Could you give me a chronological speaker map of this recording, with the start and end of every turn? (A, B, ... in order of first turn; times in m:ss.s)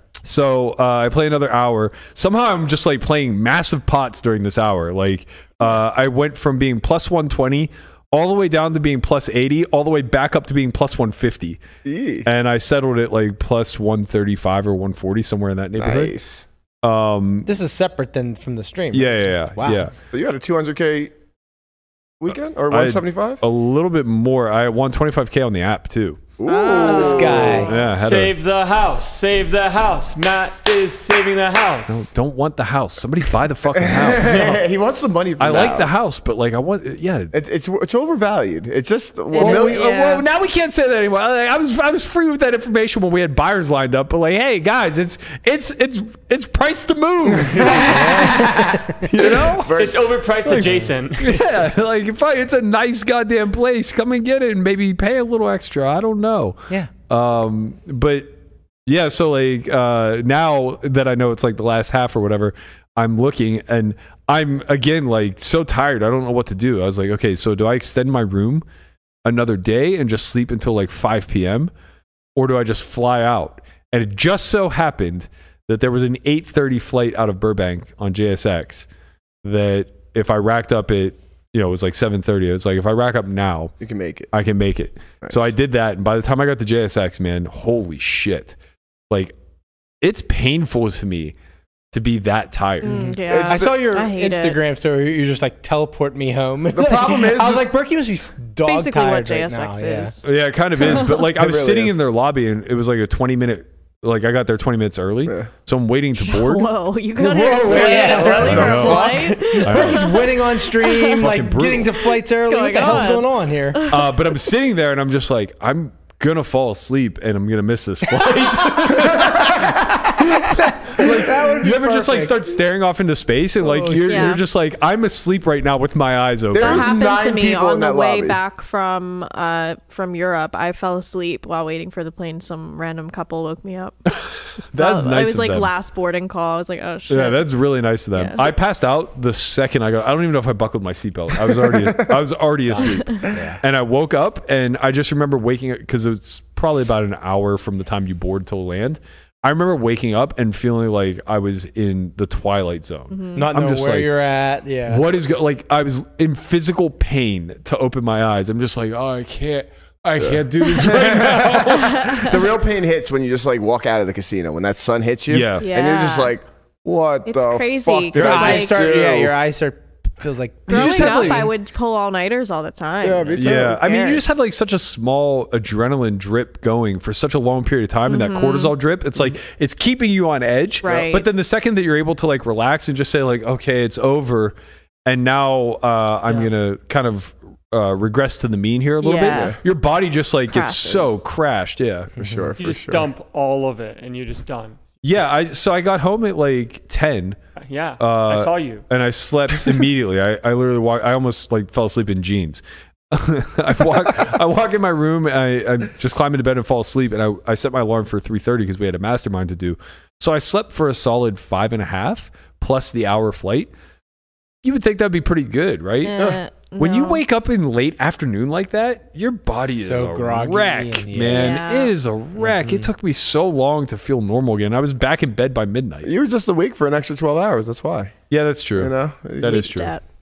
0:00.2-0:11.6 A
0:11.8-0:12.3 B
0:12.2-0:16.1 A
0:15.8-0:16.4 B
0:16.8-0:17.5 A
0:17.4-0:19.9 C
0:18.9-0:20.0 A
0:20.1-0:21.1 B
0:22.2-0:23.4 B
0:22.7-0:26.2 A
0:26.4-0:27.8 B
0:26.4-0:27.7 D
0:26.8-0:27.7 C
0:27.6-0:28.4 A
0:27.8-0:32.1 E
0:31.9-0:34.6 A
0:33.8-0:35.9 B
0:35.4-0:37.3 A
0:37.3-0:39.8 B
0:39.3-0:40.2 D
0:39.4-0:49.8 A
0:47.3-0:50.0 B
0:47.5-0:48.0 E
0:47.8-0:49.0 C
0:49.8-0:51.6 E
0:50.4-1:08.6 A
1:09.2-1:11.7 A
1:12.4-1:18.9 A
1:19.4-1:23.7 A
1:23.8-1:24.3 B
1:24.3-1:28.6 A
1:25.2-1:25.5 B
1:29.1-1:29.3 A
1:30.0-1:31.3 A
1:31.9-1:33.1 A
1:32.8-1:34.6 D
1:32.8-1:34.0 B
1:33.4-1:40.2 C
1:36.7-1:37.6 B
1:38.6-1:41.2 D
1:40.2-1:46.7 A
1:40.8-1:42.0 B
1:45.3-1:45.5 B
1:46.2-1:51.2 D
1:47.2-1:49.1 C
1:47.5-1:49.6 B
1:47.6-1:50.1 A
1:49.6-1:53.8 C
1:51.1-1:51.9 A
1:52.0-1:54.3 D
1:53.9-2:07.0 A
1:58.7-2:01.6 B
2:00.9-2:02.5 C
2:03.6-2:04.2 C
2:04.0-2:04.4 D
2:06.5-2:08.4 B
2:06.5-2:14.0 D
2:14.0-2:15.7 A
2:14.8-2:17.5 D
2:17.1-2:34.1 A
2:18.1-2:18.5 D
2:21.5-2:22.2 B
2:22.8-2:23.3 D
2:23.3-2:23.6 C
2:33.1-2:33.4 D
2:33.3-2:35.1 C
2:34.9-2:42.4 A
2:40.2-2:49.3 B
2:41.7-2:42.3 D
2:45.3-2:45.7 A
2:45.6-2:46.3 D
2:47.2-2:48.8 D
2:48.1-2:51.5 C
2:50.7-2:51.5 A
2:50.7-2:54.4 D
2:53.0-2:53.9 B
2:53.4-3:04.5 A
2:58.0-2:58.7 D
3:00.8-3:01.2 D
3:00.8-3:01.1 B
3:05.0-3:12.2 A
3:09.0-3:09.6 D
3:09.3-3:09.6 B
3:10.5-3:11.2 D
3:12.2-3:12.6 C
3:12.2-3:13.1 B
3:12.6-3:14.8 E
3:15.0-3:17.4 A
3:17.6-3:18.8 E
3:18.0-3:33.7 A
3:34.6-3:46.1 A
3:36.0-3:37.2 D
3:39.6-3:41.6 C
3:41.3-3:41.9 D
3:42.4-3:42.9 C
3:46.0-3:48.2 B
3:48.3-3:49.9 A
3:48.8-3:49.7 B
3:49.4-3:50.0 D